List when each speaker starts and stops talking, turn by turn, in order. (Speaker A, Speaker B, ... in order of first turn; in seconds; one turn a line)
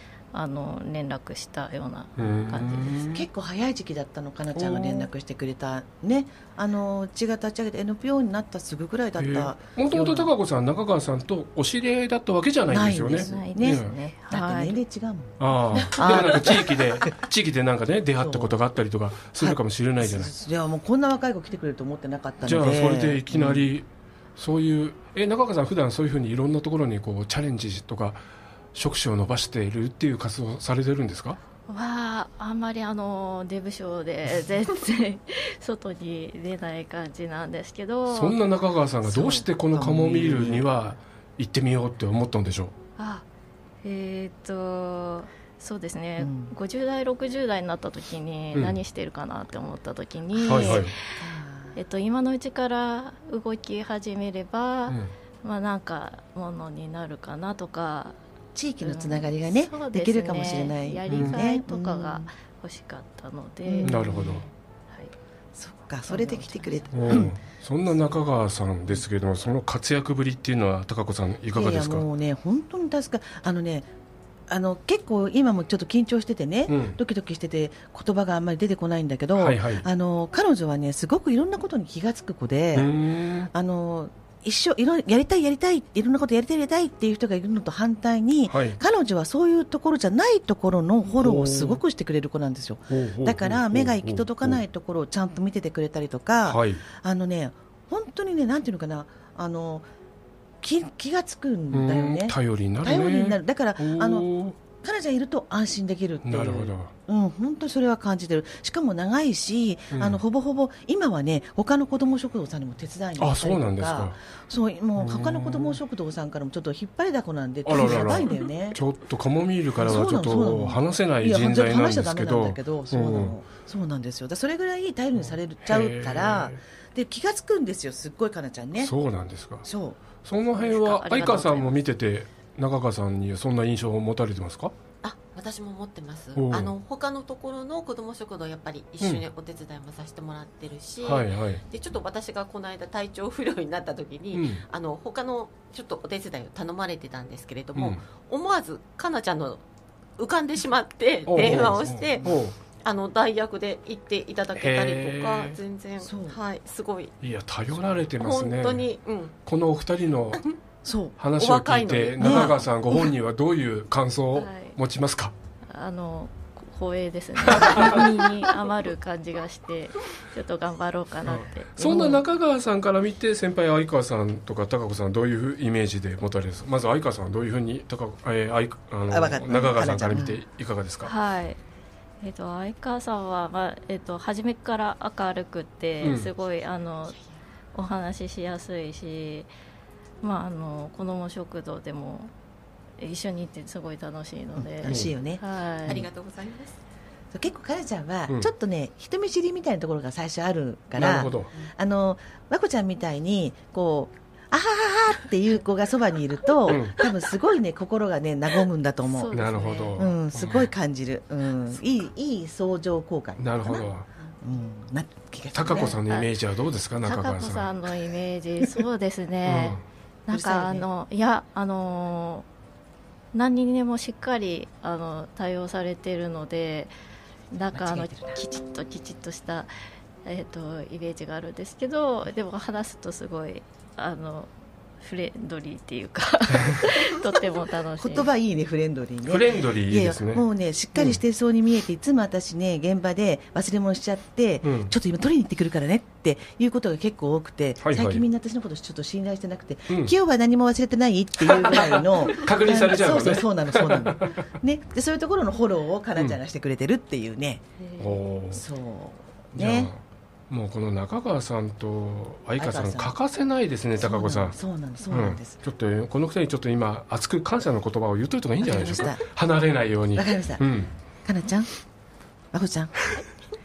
Speaker A: 0.3-3.2
Speaker B: 2.2-3.2
Speaker C: 3.1-10.3
Speaker B: 4.5-5.1
Speaker B: 9.2-13.9
Speaker C: 12.7-17.2
Speaker A: 13.1-14.8
Speaker B: 15.4-20.3
Speaker C: 18.2-18.5
Speaker C: 19.4-23.7
Speaker B: 22.4-28.2
Speaker B: 28.7-31.4
Speaker A: 31.7-38.4
Speaker B: 38.1-42.7
Speaker C: 39.0-40.7
Speaker A: 43.0-43.2
Speaker A: 43.8-51.2
Speaker C: 46.2-46.5
Speaker C: 50.3-51.8
Speaker B: 50.4-50.9
Speaker A: 51.7-58.2
Speaker C: 58.5-62.3
Speaker A: 58.8-64.3
Speaker B: 61.1-61.4
Speaker C: 63.6-64.5
Speaker B: 63.8-64.4
Speaker C: 65.5-67.4
Speaker A: 66.1-67.3
Speaker B: 66.9-72.0
Speaker C: 71.5-73.9
Speaker C: 74.5-99.9
Speaker B: 76.7-77.0
Speaker B: 79.3-79.8
Speaker B: 82.7-83.5
Speaker B: 88.5-88.8
Speaker B: 91.2-91.8
Speaker B: 92.9-94.6
Speaker B: 96.5-96.8
Speaker C: 100.6-118.8
Speaker B: 101.7-104.5
Speaker B: 106.2-106.9
Speaker B: 109.9-110.2
Speaker B: 113.2-114.2
Speaker B: 115.0-115.8
Speaker B: 117.7-123.3
Speaker C: 119.7-128.9
Speaker B: 125.2-126.6
Speaker B: 128.8-129.6
Speaker C: 129.6-130.0
Speaker B: 130.2-134.7
Speaker A: 130.5-131.8
Speaker D: 135.0-149.6
Speaker B: 136.3-136.7
Speaker B: 141.0-141.6
Speaker B: 144.3-144.6
Speaker B: 147.7-148.0
Speaker D: 150.2-157.1
Speaker B: 151.3-152.5
Speaker C: 151.4-151.7
Speaker B: 154.5-155.6
Speaker C: 156.0-156.4
Speaker B: 157.2-158.8
Speaker D: 158.2-159.3
Speaker B: 159.4-160.4
Speaker C: 160.8-161.2
Speaker B: 161.2-165.3
Speaker D: 161.4-163.0
Speaker C: 162.2-162.5
Speaker A: 164.3-164.8
Speaker A: 165.7-171.5
Speaker B: 167.5-168.1
Speaker B: 171.3-181.1
Speaker C: 171.8-172.2
Speaker C: 179.1-180.4
Speaker A: 181.0-181.6
Speaker A: 182.2-187.2
Speaker B: 186.0-186.3
Speaker A: 187.7-189.5
Speaker A: 190.2-192.3
Speaker A: 193.0-196.0
Speaker C: 194.6-196.1
Speaker D: 195.8-196.8
Speaker C: 197.3-209.4
Speaker B: 201.0-201.5
Speaker B: 206.7-207.0
Speaker D: 206.7-207.2
Speaker A: 209.1-210.1
Speaker B: 209.3-210.7
Speaker C: 209.9-216.0
Speaker B: 213.4-214.1
Speaker B: 215.5-217.7
Speaker A: 217.0-222.4
Speaker B: 219.4-219.8
Speaker C: 220.3-220.9
Speaker A: 223.3-226.9
Speaker A: 227.5-229.7
Speaker C: 227.7-228.4
Speaker A: 230.2-234.5
Speaker A: 235.0-238.3
Speaker C: 238.0-257.7
Speaker B: 239.3-240.4
Speaker B: 244.6-244.9
Speaker B: 247.8-248.2
Speaker B: 251.5-254.4
Speaker A: 257.8-258.1
Speaker B: 258.0-258.6
Speaker C: 258.5-259.9
Speaker B: 259.5-264.6
Speaker C: 262.6-263.1
Speaker C: 264.0-265.6
Speaker B: 265.1-270.9
Speaker C: 268.6-269.2
Speaker C: 270.1-270.6
Speaker C: 271.2-271.7
Speaker C: 272.5-273.2